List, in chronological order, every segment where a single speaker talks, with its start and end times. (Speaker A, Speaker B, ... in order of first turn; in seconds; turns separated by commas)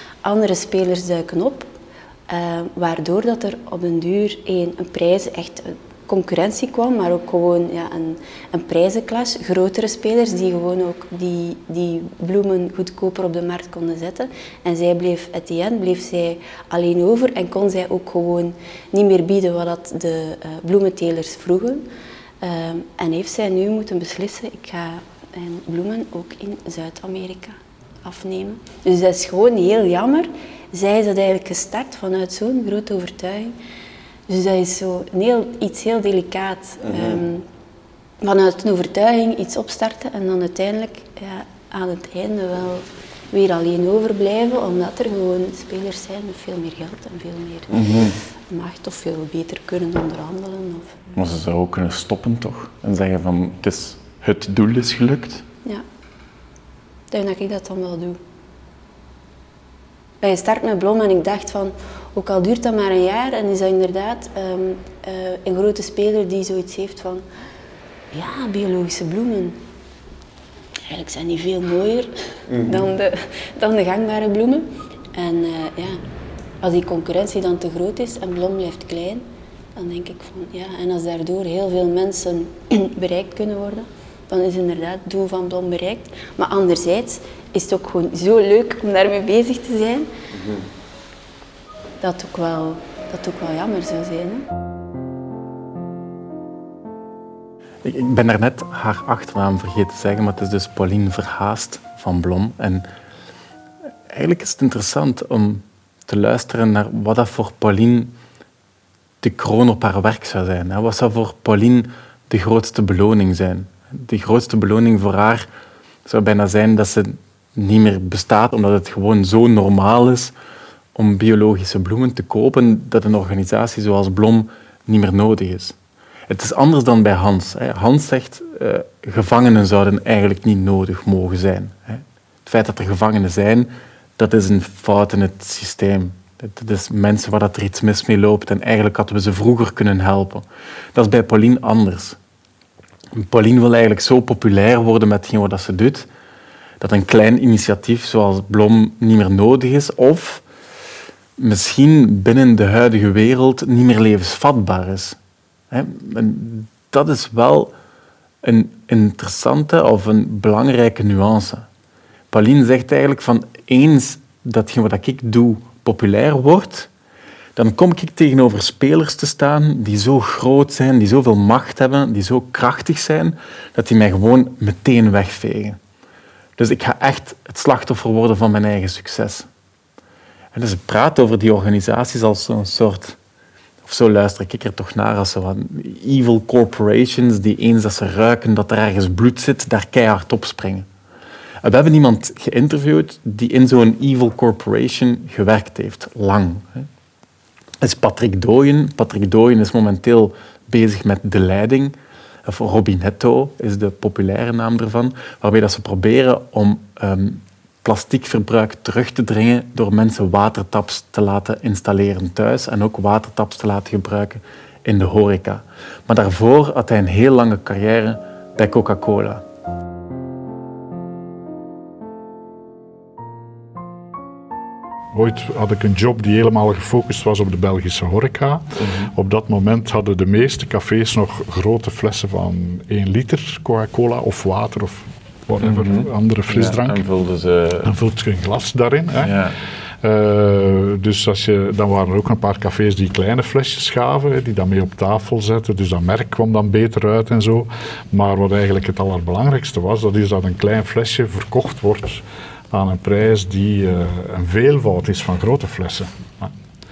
Speaker A: 0.2-1.7, Speaker A: 2.3-21.8, Speaker A: 22.4-33.5, Speaker A: 34.3-37.4, Speaker B: 36.9-37.2, Speaker A: 38.2-47.7, Speaker B: 47.7-48.2, Speaker A: 48.5-51.1, Speaker B: 51.1-55.4, Speaker A: 57.1-58.2, Speaker A: 60.2-67.2, Speaker A: 68.1-69.6, Speaker A: 70.9-76.0, Speaker B: 72.5-72.8, Speaker A: 76.6-79.2, Speaker A: 79.8-90.1, Speaker B: 90.3-90.6, Speaker A: 92.0-94.4, Speaker B: 97.8-102.9, Speaker B: 104.1-108.1, Speaker B: 109.2-115.5, Speaker B: 116.0-120.3, Speaker B: 120.9-125.8, Speaker B: 126.3-142.2, Speaker B: 143.1-146.1, Speaker B: 146.8-150.4, Speaker B: 151.4-155.2, Speaker B: 155.7-157.7, Speaker B: 158.4-161.7, Speaker B: 162.3-166.9, Speaker B: 167.6-175.8, Speaker B: 176.6-179.5, Speaker B: 180.5-183.2, Speaker B: 183.8-190.9, Speaker B: 191.6-196.8, Speaker B: 197.8-201.9, Speaker B: 202.4-219.4, Speaker C: 225.1-237.0, Speaker B: 228.8-229.1, Speaker B: 235.6-237.9, Speaker C: 237.8-239.4, Speaker B: 239.2-239.5, Speaker C: 240.0-256.5